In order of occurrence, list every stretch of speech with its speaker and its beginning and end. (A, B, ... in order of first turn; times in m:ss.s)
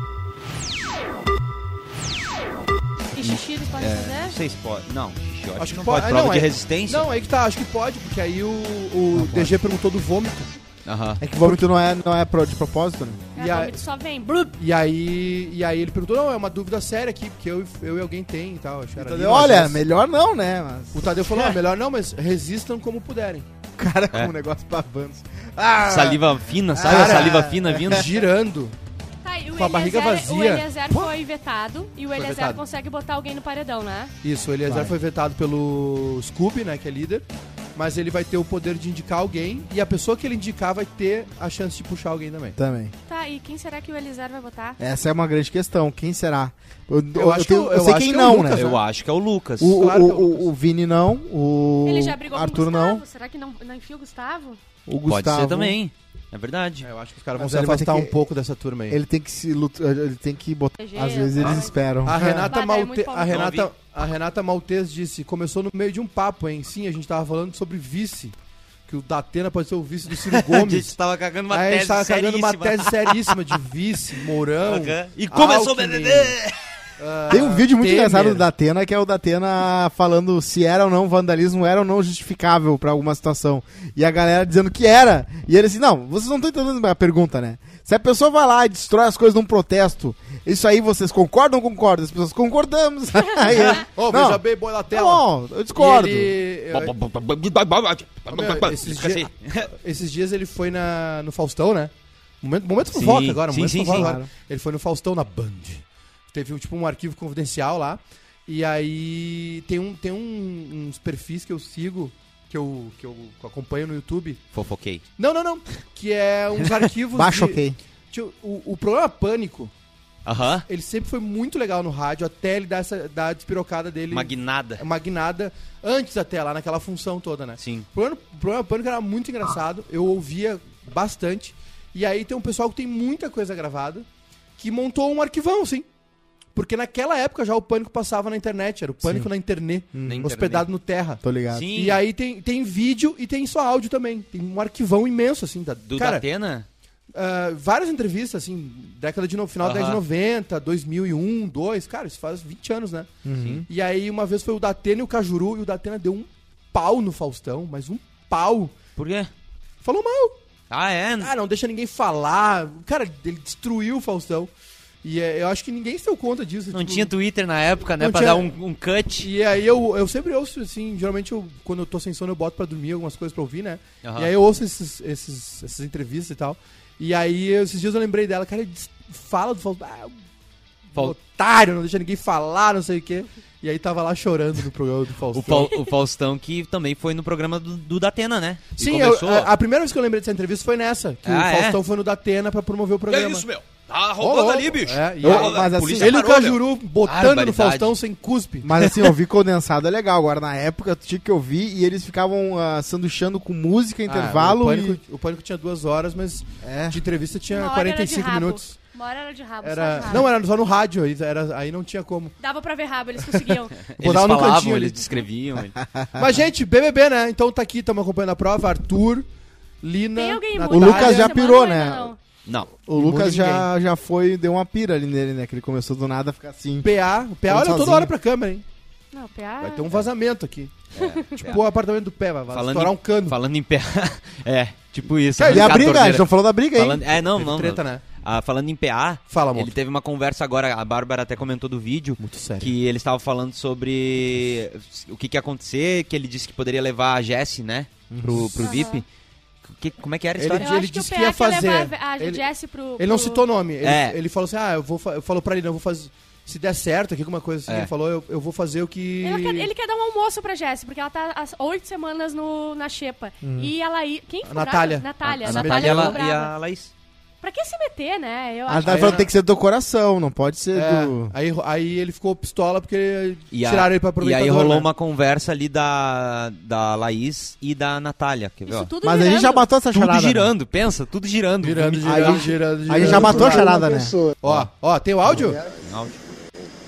0:03.2-0:04.4 A
0:03.2-0:07.1 B
0:05.6-0:10.6 C
0:09.1-0:09.6 D
0:10.8-0:11.2 B
0:11.2-0:13.3 D
0:11.4-0:11.6 C
0:13.4-0:14.5 A
0:13.4-0:13.8 C
0:14.5-0:19.8 C
0:19.0-0:21.6 D
0:20.9-0:23.5 C
0:23.8-0:26.2 D
0:25.9-0:28.1 B
0:26.8-0:28.0 D
0:26.8-0:28.8 C
0:29.2-0:34.1 A
0:29.5-0:31.1 C
0:32.2-0:32.6 C
0:34.2-0:42.6 C
0:34.6-0:35.0 D
0:42.6-0:42.9 D
0:43.1-0:44.8 A
0:44.8-0:48.7 D
0:47.1-0:48.8 C
0:48.5-0:49.8 B
0:49.6-0:53.0 D
0:49.7-0:50.5 C
0:51.8-0:54.6 A
0:54.9-0:55.8 D
0:55.1-0:56.9 B
0:56.8-0:59.0 C
0:57.4-0:58.1 D
0:58.9-1:02.5 D
1:00.8-1:01.8 A
1:02.0-1:08.3 C
1:02.5-1:03.4 A
1:03.3-1:03.7 B
1:08.9-1:10.9 C
1:10.2-1:13.3 B
1:11.5-1:16.4 C
1:14.6-1:16.6 B
1:17.0-1:18.4 C
1:17.3-1:36.4 D
1:33.5-1:33.8 B
1:33.8-1:36.9 C
1:36.7-1:39.7 B
1:38.3-1:54.4 C
1:42.9-1:44.1 B
1:43.9-1:44.3 D
1:54.5-1:55.0 B
1:55.2-1:59.7 C
1:57.1-1:57.8 D
2:00.2-2:00.7 B
2:00.7-2:14.1 C
2:04.1-2:04.8 B
2:07.6-2:07.9 B
2:14.6-2:15.9 C
2:16.6-2:21.2 C
2:19.0-2:19.3 D
2:19.9-2:20.3 D
2:20.1-2:20.7 B
2:21.2-2:21.7 D
2:21.5-2:22.0 B
2:21.7-2:26.2 C
2:25.9-2:26.7 B
2:27.1-2:33.1 C
2:29.6-2:30.0 B
2:33.2-2:33.7 D
2:33.4-2:33.6 B
2:33.7-2:38.7 C
2:39.0-2:39.3 B
2:39.8-2:40.4 C
2:40.7-2:41.3 B
2:41.2-2:44.5 C
2:45.0-2:47.1 C
2:46.7-2:49.3 B
2:48.0-2:48.5 C
2:49.2-3:00.1 C
2:54.0-2:54.3 B
3:00.9-3:05.8 C
3:05.3-3:09.5 B
3:08.8-3:13.4 C
3:11.2-3:11.8 B
3:13.1-3:18.0 B
3:14.2-3:18.7 C
3:15.2-3:16.2 D
3:18.6-3:25.0 D
3:18.8-3:19.1 B
3:24.1-3:28.8 C
3:26.6-3:27.0 D
3:27.5-3:30.3 A
3:29.6-3:32.4 C
3:32.4-3:33.8 A
3:33.9-3:35.8 B
3:34.0-3:35.2 C
3:35.8-3:36.2 D
3:36.2-3:39.3 C
3:39.8-3:41.4 C
3:40.2-3:42.2 A
3:40.7-3:42.1 D
3:42.4-3:42.7 B
3:42.9-3:48.1 D
3:42.9-3:43.7 C
3:46.8-3:48.6 C
3:49.1-3:49.9 A
3:49.6-3:53.4 C
3:51.0-3:51.6 B
3:52.5-4:09.1 B
3:55.4-3:56.2 C
3:55.5-3:57.0 D
3:57.4-3:58.0 C
3:59.3-3:59.7 C
4:02.2-4:02.8 C
4:08.1-4:08.6 D
4:08.6-4:09.0 A
4:09.6-4:10.7 B
4:10.4-4:12.4 C
4:10.6-4:13.4 A
4:13.0-4:19.7 C
4:13.8-4:14.2 B
4:19.2-4:26.5 A
4:23.4-4:23.7 D
4:24.5-4:26.2 C
4:25.2-4:26.9 B
4:27.4-4:29.3 A
4:28.7-4:31.3 D
4:28.8-4:29.3 C
4:30.7-4:34.9 C
4:33.5-4:38.9 B
4:38.7-4:39.7 A
4:39.0-4:40.5 D
4:39.9-4:42.5 B
4:41.6-4:43.8 C
4:42.0-4:44.2 D
4:44.4-4:45.6 C
4:45.8-4:46.2 B